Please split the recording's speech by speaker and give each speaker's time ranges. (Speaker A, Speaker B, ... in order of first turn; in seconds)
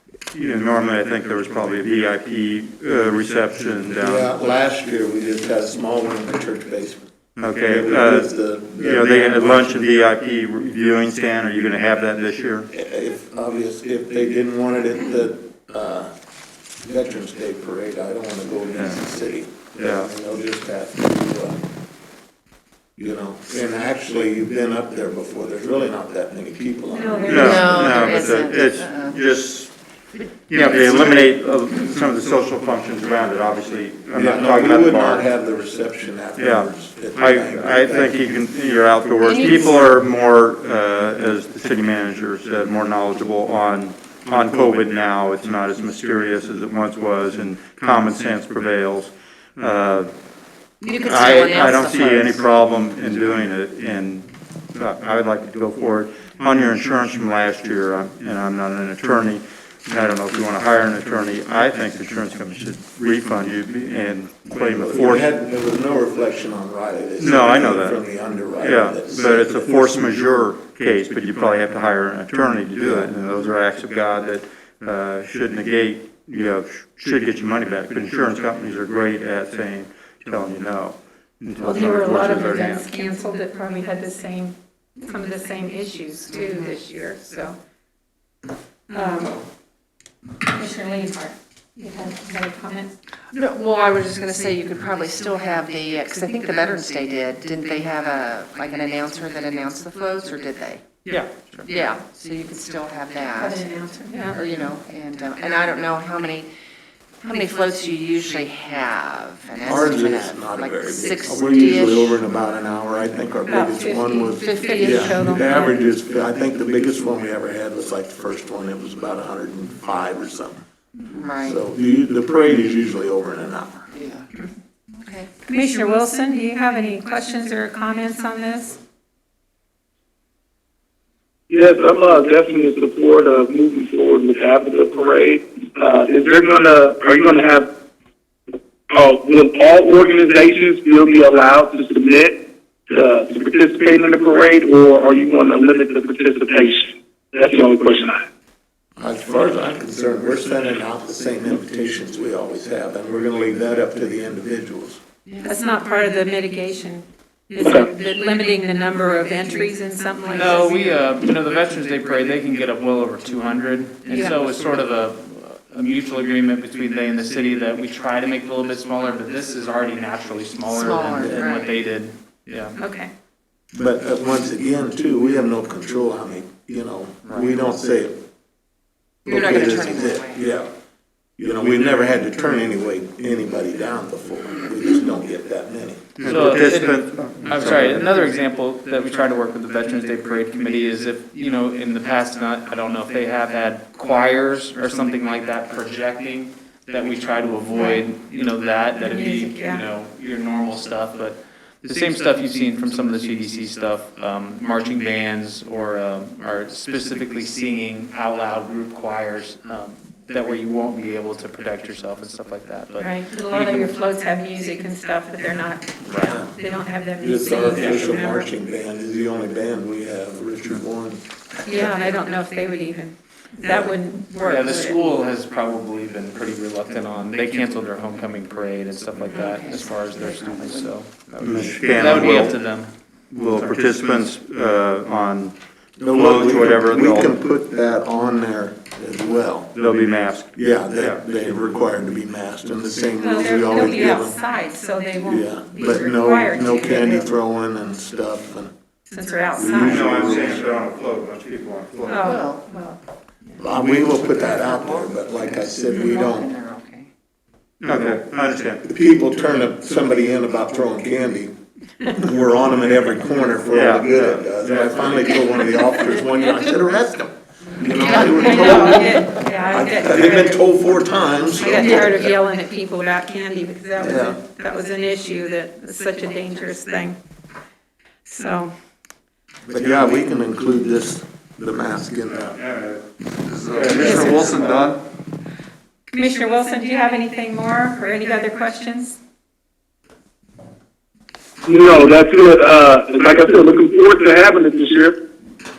Speaker A: 0.3-4.3, 7.4-8.3, 8.8-12.7, 19.8-20.1, 27.3-29.7, 30.5-35.2, 36.4-50.1, 51.0-65.2, 67.2-68.0, 68.6-82.9, 186.2-188.3, 231.4-232.6, 233.3-237.4, 239.8-241.4, 249.6-252.3, 257.8-258.8, 263.8-265.4, 282.6-283.0, 283.7-285.0
Speaker B: 4.0-7.1, 7.7-9.7, 12.7-16.1, 16.8-21.6, 23.0-27.7, 34.1-38.2, 64.6-69.7, 109.6-120.6, 121.4-123.9, 149.0-155.0, 171.1-171.4, 173.7-178.2, 179.2-180.7, 181.4-186.1, 217.2-222.0, 223.7-223.9, 236.0-239.7, 240.6-244.4, 245.2-248.7, 249.6-250.6, 253.6-256.5, 258.8-261.5, 262.1-272.3, 274.0-274.4, 279.7-282.6, 283.4-284.8
Speaker C: 26.9-28.3, 81.6-87.6, 88.9-89.4, 90.5-92.9, 103.3-104.4, 113.5-115.8, 125.4-128.8, 155.4-160.8, 164.1-164.4, 172.8-173.1, 197.8-198.0, 199.0-199.8, 213.0-218.5, 221.7-225.0, 243.2-247.3, 249.1-250.2, 252.1-253.0, 268.1-270.8, 271.4-277.2, 278.2-278.7, 286.1-289.2
Speaker D: 27.3-29.1, 50.8-52.4, 86.3-86.7, 93.3-100.8, 101.7-106.5, 107.2-112.2, 114.0-115.6, 121.0-121.6, 123.9-124.3, 124.9-125.3, 170.7-171.7, 179.3-180.4, 229.3-230.8, 252.1-252.6, 254.6-257.1, 267.9-269.2, 271.8-272.1
Speaker E: 101.1-101.6, 160.3-172.8, 186.2-213.9, 216.1-216.4, 224.4-232.9
Speaker F: 131.5-137.7, 138.9-148.2, 157.6-157.9, 291.7-295.2